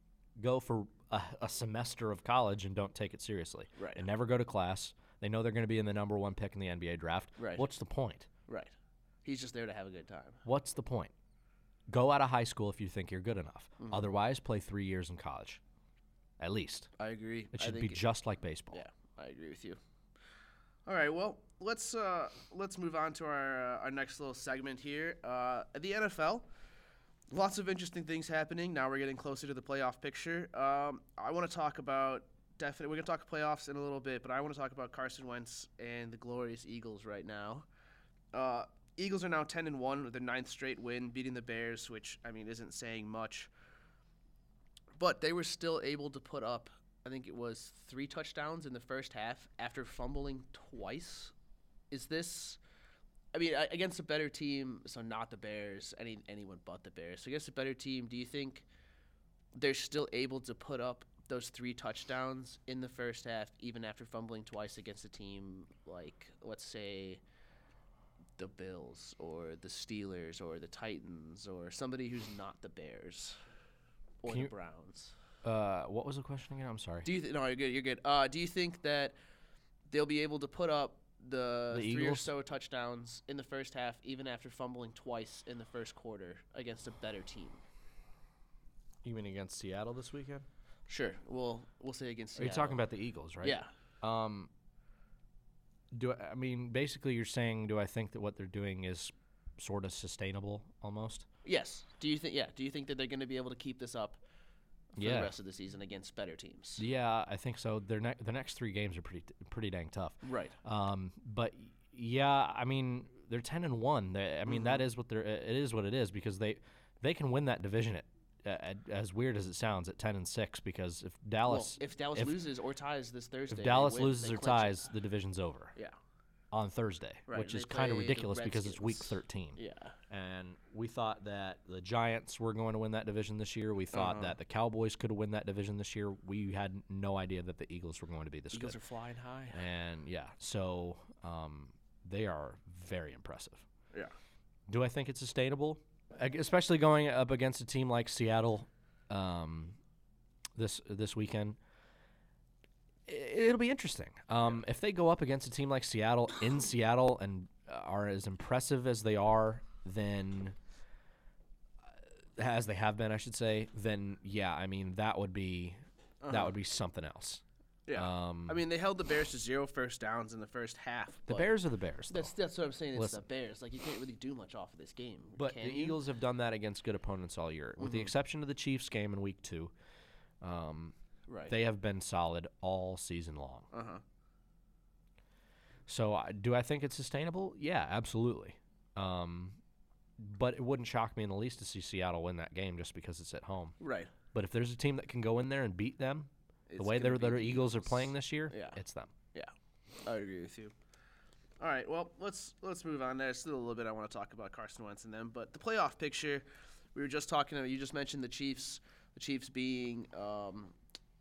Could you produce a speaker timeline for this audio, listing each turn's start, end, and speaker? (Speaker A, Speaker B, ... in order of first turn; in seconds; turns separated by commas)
Speaker A: 0.4-8.3, Speaker B: 3.8-4.1, Speaker B: 7.4-7.7, Speaker B: 8.5-8.7, Speaker B: 9.2-10.4, Speaker A: 10.4-11.1, Speaker A: 11.9-15.6, Speaker B: 13.8-14.1, Speaker A: 16.4-16.9, Speaker B: 17.0-18.0, Speaker A: 17.5-18.8, Speaker B: 18.7-19.8, Speaker B: 20.9-26.5, Speaker B: 27.3-37.6, Speaker B: 38.3-43.5, Speaker B: 45.0-51.3, Speaker B: 51.9-52.6, Speaker B: 53.3-58.7, Speaker B: 59.5-67.2, Speaker B: 68.4-73.4, Speaker B: 74.2-75.1, Speaker A: 75.4-77.1, Speaker B: 77.0-79.1, Speaker B: 79.9-87.6, Speaker A: 81.7-82.3, Speaker A: 89.0-90.5, Speaker B: 90.9-92.8, Speaker A: 92.4-94.5, Speaker B: 93.4-93.7, Speaker A: 95.9-101.2, Speaker B: 101.5-104.2, Speaker B: 105.0-106.8, Speaker A: 105.0-105.3, Speaker A: 106.8-122.4, Speaker B: 110.2-110.5, Speaker B: 114.5-114.8, Speaker B: 121.5-124.8, Speaker A: 123.5-125.7, Speaker A: 126.5-129.6, Speaker B: 127.3-130.0, Speaker A: 130.1-138.8, Speaker B: 133.9-134.3, Speaker B: 138.5-139.6, Speaker A: 139.5-143.7, Speaker A: 144.7-149.8, Speaker A: 150.6-151.6, Speaker A: 153.1-160.6, Speaker A: 162.4-165.8, Speaker B: 166.2-166.5, Speaker A: 166.3-167.4, Speaker B: 167.9-171.5, Speaker A: 167.9-168.6, Speaker A: 171.3-172.3, Speaker B: 172.1-176.0, Speaker A: 172.9-173.2, Speaker A: 175.4-179.7, Speaker B: 177.8-178.1, Speaker A: 180.4-180.9, Speaker B: 181.3-181.5, Speaker A: 181.5-183.7, Speaker B: 183.7-184.0, Speaker A: 185.9-189.6, Speaker A: 190.2-193.8, Speaker B: 193.8-194.1, Speaker A: 194.3-199.1, Speaker B: 196.7-198.8, Speaker B: 200.0-200.7, Speaker B: 201.6-210.8